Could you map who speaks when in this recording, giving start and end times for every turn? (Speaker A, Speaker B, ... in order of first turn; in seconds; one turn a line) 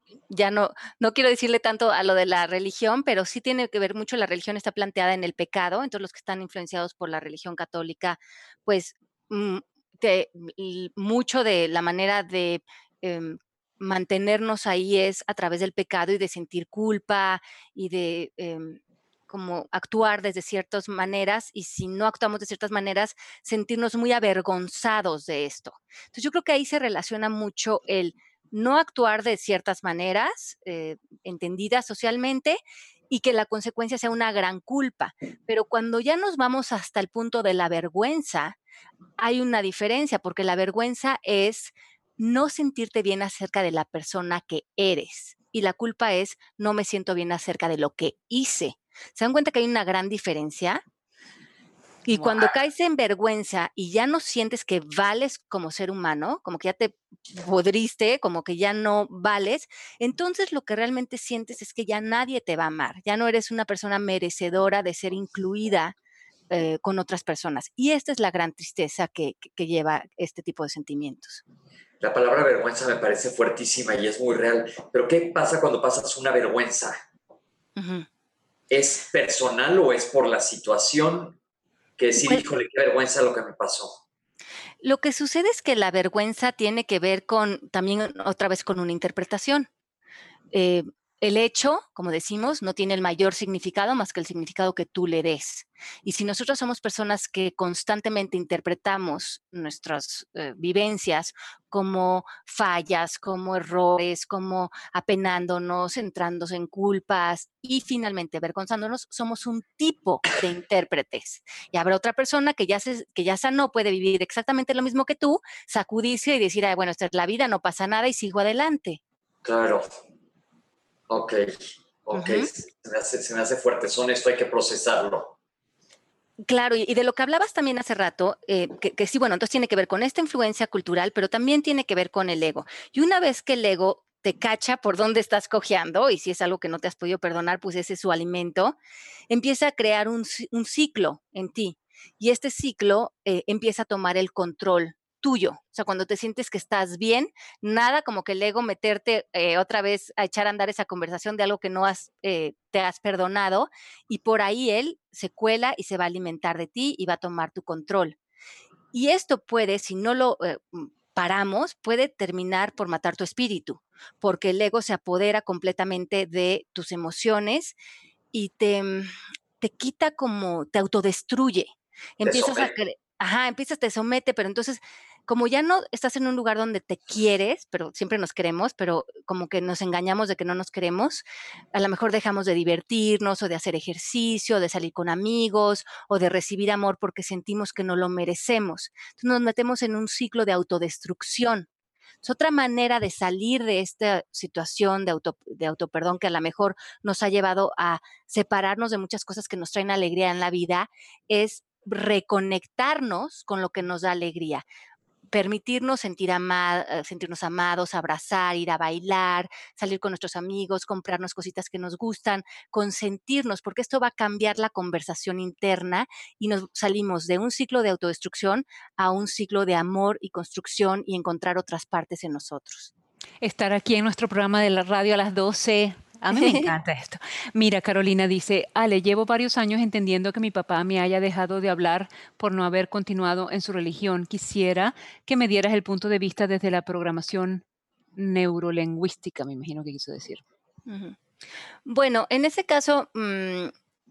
Speaker A: 0.3-32.6
Speaker A: 33.1-38.6
Speaker A: 39.2-50.8
Speaker A: 52.1-66.0
Speaker A: 66.5-71.4
Speaker B: 72.0-77.0
Speaker A: 77.8-78.1
Speaker B: 78.7-81.4
Speaker B: 82.0-84.0
Speaker A: 84.8-89.7
Speaker A: 90.5-119.0
Speaker B: 119.4-119.9
Speaker B: 121.1-125.3
Speaker A: 122.1-122.5
Speaker A: 126.5-138.8
Speaker A: 139.3-158.2
Speaker A: 158.9-167.8
Speaker A: 168.3-191.7
Speaker B: 172.2-172.7
Speaker A: 192.2-204.7
Speaker A: 205.3-222.9
Speaker C: 223.4-237.6
Speaker A: 226.3-226.7
Speaker C: 238.2-240.4
Speaker A: 240.9-241.2
Speaker A: 241.9-243.7